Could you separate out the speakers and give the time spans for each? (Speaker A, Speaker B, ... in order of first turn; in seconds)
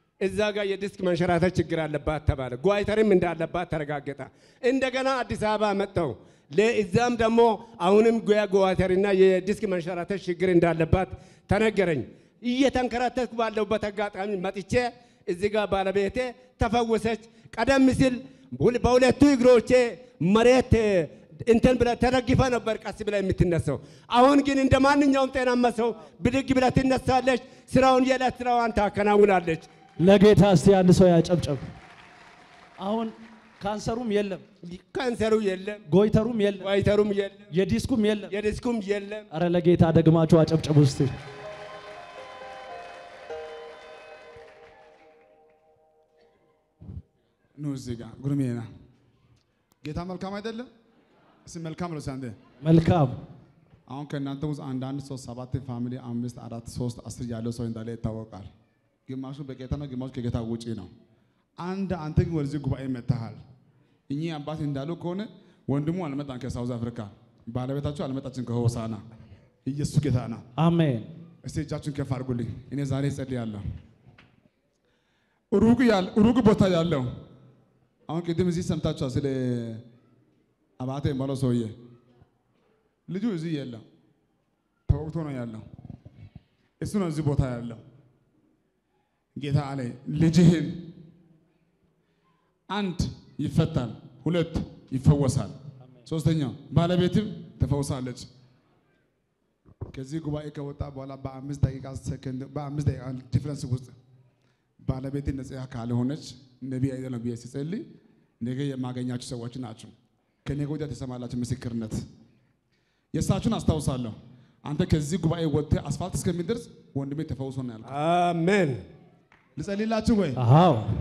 Speaker A: 0.2-29.7, 34.6-35.8, 36.6-37.5, 38.3-39.3, 117.8-118.8
Speaker B: 30.0-31.6, 32.8-34.4, 35.9-36.7, 37.5-38.3, 39.3-41.1, 52.6-53.1, 70.6-71.1, 120.3-120.9
Speaker C: 47.6-48.6, 49.8-50.7, 51.5-52.4, 53.9-58.5, 59.1-60.9, 61.6-63.4, 64.1-69.0, 69.7-70.4, 71.4-73.6, 75.5-77.1, 78.1-79.8, 80.8-81.7, 83.1-83.8, 84.9-85.6, 86.8-87.8, 89.3-90.9, 92.7-95.5, 96.0-98.3, 99.9-103.9, 104.8-107.8, 108.4-109.9, 110.4-112.0, 113.1-117.9, 119.5-120.4